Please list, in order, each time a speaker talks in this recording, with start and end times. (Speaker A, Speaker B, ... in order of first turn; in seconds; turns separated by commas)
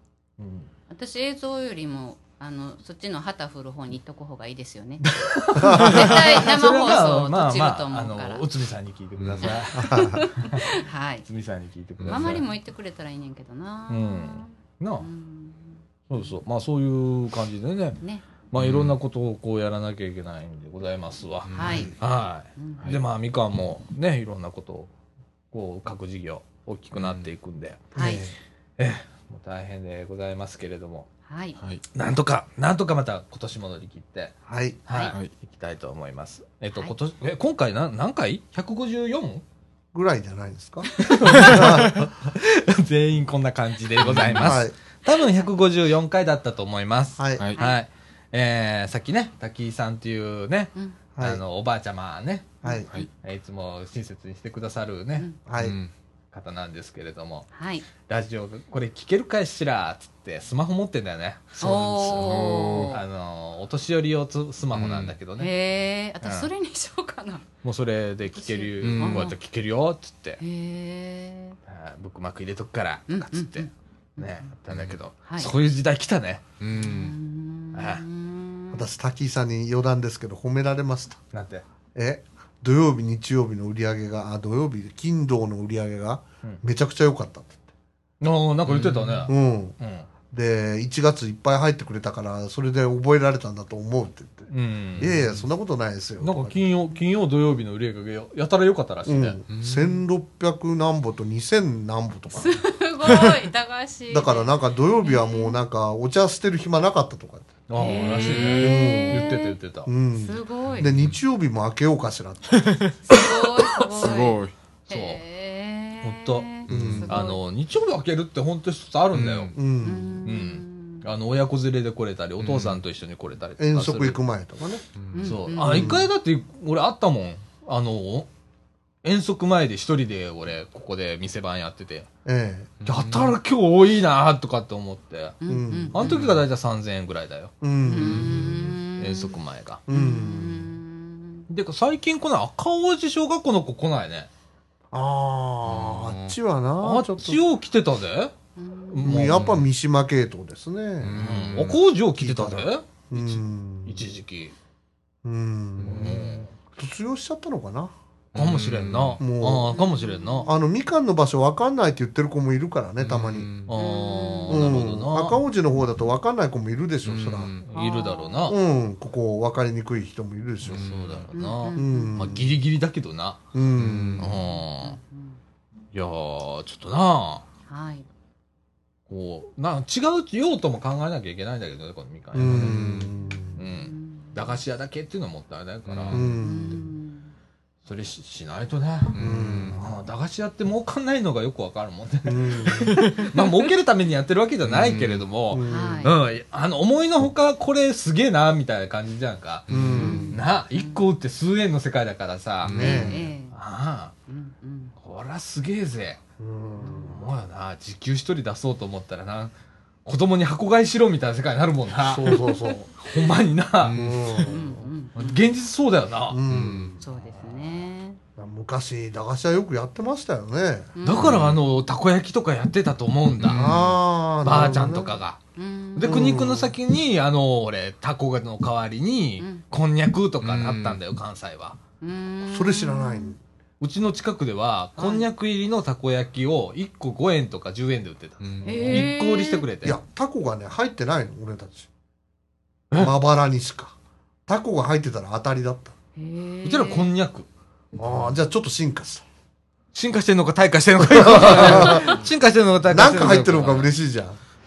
Speaker A: 0.4-0.7, Speaker B: 0.9-8.4, Speaker A: 5.0-10.7, Speaker C: 5.5-6.2, Speaker D: 9.2-9.5, Speaker B: 9.4-11.2, Speaker C: 9.7-10.3, Speaker A: 11.2-12.4, Speaker D: 12.0-12.4, Speaker B: 12.0-16.3, Speaker A: 13.9-15.1, Speaker A: 16.1-24.9, Speaker D: 18.6-18.9, Speaker D: 21.4-21.9, Speaker B: 21.5-21.9, Speaker C: 21.6-21.9, Speaker B: 22.6-22.9, Speaker A: 25.5-28.0, Speaker D: 26.9-27.3, Speaker B: 27.9-28.2, Speaker C: 27.9-28.3, Speaker A: 28.8-31.1, Speaker B: 31.3-31.6, Speaker D: 31.6-31.8, Speaker A: 31.9-34.3, Speaker C: 34.5-34.8, Speaker A: 34.9-39.4, Speaker B: 34.9-35.2, Speaker C: 39.9-42.0, Speaker A: 40.9-52.6, Speaker D: 41.4-41.8, Speaker D: 44.0-44.5, Speaker C: 44.4-44.7, Speaker B: 45.1-45.5, Speaker C: 47.2-47.4, Speaker A: 53.2-55.3, Speaker C: 55.5-55.8, Speaker D: 55.6-55.9, Speaker A: 56.3-65.5, Speaker B: 57.5-57.9, Speaker B: 61.6-63.0, Speaker C: 61.6-61.9, Speaker D: 62.1-63.0, Speaker D: 64.7-65.1, Speaker B: 65.4-67.5, Speaker A: 66.2-66.5, Speaker A: 67.6-70.4, Speaker B: 68.4-69.3, Speaker D: 68.8-69.3, Speaker B: 70.4-71.6, Speaker A: 71.7-76.4, Speaker B: 73.1-74.5, Speaker D: 74.7-75.0, Speaker B: 75.2-75.5, Speaker D: 76.6-77.1, Speaker B: 76.8-78.8, Speaker A: 77.7-78.0, Speaker C: 78.7-81.2, Speaker A: 81.3-81.6, Speaker C: 81.9-87.7, Speaker A: 88.2-90.1, Speaker D: 88.7-89.3, Speaker C: 89.3-89.8, Speaker C: 90.3-96.6, Speaker A: 94.5-95.3, Speaker D: 95.1-95.4, Speaker A: 96.2-99.4, Speaker C: 99.0-103.3, Speaker D: 99.5-100.0, Speaker B: 102.3-105.6, Speaker D: 103.0-103.4, Speaker C: 104.1-107.6, Speaker A: 107.7-109.9, Speaker B: 107.8-109.5, Speaker D: 107.8-108.9, Speaker C: 108.6-112.7, Speaker B: 110.1-110.9, Speaker D: 110.7-111.2, Speaker D: 112.5-114.5, Speaker B: 113.1-117.4, Speaker A: 114.9-115.2, Speaker A: 116.0-119.5, Speaker D: 116.7-117.1, Speaker C: 116.7-117.1, Speaker D: 119.1-119.6, Speaker C: 119.5-120.3, Speaker B: 119.8-121.0, Speaker A: 120.2-124.2, Speaker D: 122.4-122.8, Speaker C: 123.6-124.8, Speaker D: 125.0-125.3, Speaker B: 125.1-126.0, Speaker A: 125.2-128.3, Speaker C: 125.6-126.1, Speaker A: 129.0-132.1, Speaker C: 132.2-132.7, Speaker D: 132.8-133.4, Speaker A: 132.8-135.4, Speaker B: 135.4-136.3, Speaker C: 135.4-136.3, Speaker A: 135.9-137.5, Speaker C: 137.6-138.5, Speaker B: 137.8-139.3, Speaker D: 138.0-138.8, Speaker A: 139.0-139.8, Speaker C: 139.9-140.7, Speaker B: 139.9-141.4, Speaker A: 141.5-144.3, Speaker C: 144.9-147.4, Speaker D: 145.7-146.1, Speaker A: 146.2-148.3, Speaker B: 148.6-149.2, Speaker A: 148.9-149.6, Speaker C: 149.0-151.2, Speaker D: 149.3-149.6, Speaker D: 151.0-151.8, Speaker A: 151.2-154.5, Speaker C: 152.2-154.1, Speaker C: 155.2-157.9, Speaker D: 155.8-156.4, Speaker A: 155.8-156.5, Speaker A: 158.3-160.5, Speaker D: 158.3-159.2, Speaker C: 159.2-159.8, Speaker B: 159.7-160.6, Speaker C: 160.4-163.5, Speaker D: 163.0-163.7, Speaker A: 163.7-165.4, Speaker B: 163.8-164.8, Speaker C: 164.5-167.5, Speaker D: 167.1-167.7, Speaker A: 167.7-168.6, Speaker B: 167.7-168.5, Speaker C: 168.5-170.9, Speaker D: 170.7-171.3, Speaker A: 170.7-173.4, Speaker B: 171.3-172.3, Speaker C: 171.7-172.6, Speaker C: 173.5-174.3, Speaker D: 173.7-174.4, Speaker A: 174.2-175.0, Speaker B: 174.5-175.4, Speaker A: 175.9-177.4, Speaker B: 177.7-178.1, Speaker A: 179.1-186.3, Speaker C: 182.3-183.6, Speaker D: 182.4-183.1, Speaker B: 183.3-184.5, Speaker D: 185.8-186.8, Speaker C: 186.1-186.8, Speaker B: 186.4-187.3, Speaker A: 187.8-199.7, Speaker D: 189.1-189.8, Speaker C: 189.1-189.8, Speaker C: 192.2-193.1, Speaker D: 194.7-195.3, Speaker C: 195.5-196.1, Speaker B: 195.6-196.1, Speaker D: 199.7-200.2, Speaker C: 199.7-200.4, Speaker B: 199.9-201.0, Speaker A: 200.3-204.1, Speaker D: 202.6-203.1, Speaker C: 202.7-203.3, Speaker B: 202.7-203.6, Speaker B: 204.3-204.9, Speaker A: 205.0-206.2, Speaker C: 206.4-207.2, Speaker B: 206.8-207.1, Speaker A: 206.9-209.5, Speaker A: 210.0-214.0, Speaker C: 212.0-212.9, Speaker D: 213.8-214.1, Speaker C: 213.9-214.9, Speaker B: 214.4-215.4, Speaker A: 215.1-216.4, Speaker C: 216.3-217.0, Speaker D: 216.5-217.0, Speaker B: 217.0-218.2, Speaker A: 217.1-217.8, Speaker C: 218.4-220.9, Speaker B: 220.9-221.6, Speaker A: 221.0-223.6, Speaker D: 221.2-221.6, Speaker D: 223.4-224.0, Speaker C: 223.5-225.1, Speaker A: 224.4-225.4, Speaker B: 225.6-226.3, Speaker A: 225.9-231.8, Speaker C: 226.0-226.7, Speaker D: 230.4-231.0, Speaker B: 232.0-233.3, Speaker C: 232.5-233.4, Speaker A: 233.8-240.0, Speaker B: 235.0-235.2, Speaker D: 238.4-239.1, Speaker B: 238.6-239.6, Speaker C: 239.8-241.9, Speaker C: 243.0-243.9, Speaker C: 244.5-245.9, Speaker B: 246.2-247.1, Speaker A: 246.6-247.5, Speaker C: 247.9-249.2, Speaker D: 248.0-248.3, Speaker A: 249.9-253.9, Speaker C: 251.0-252.1, Speaker D: 251.5-252.2, Speaker C: 252.9-254.4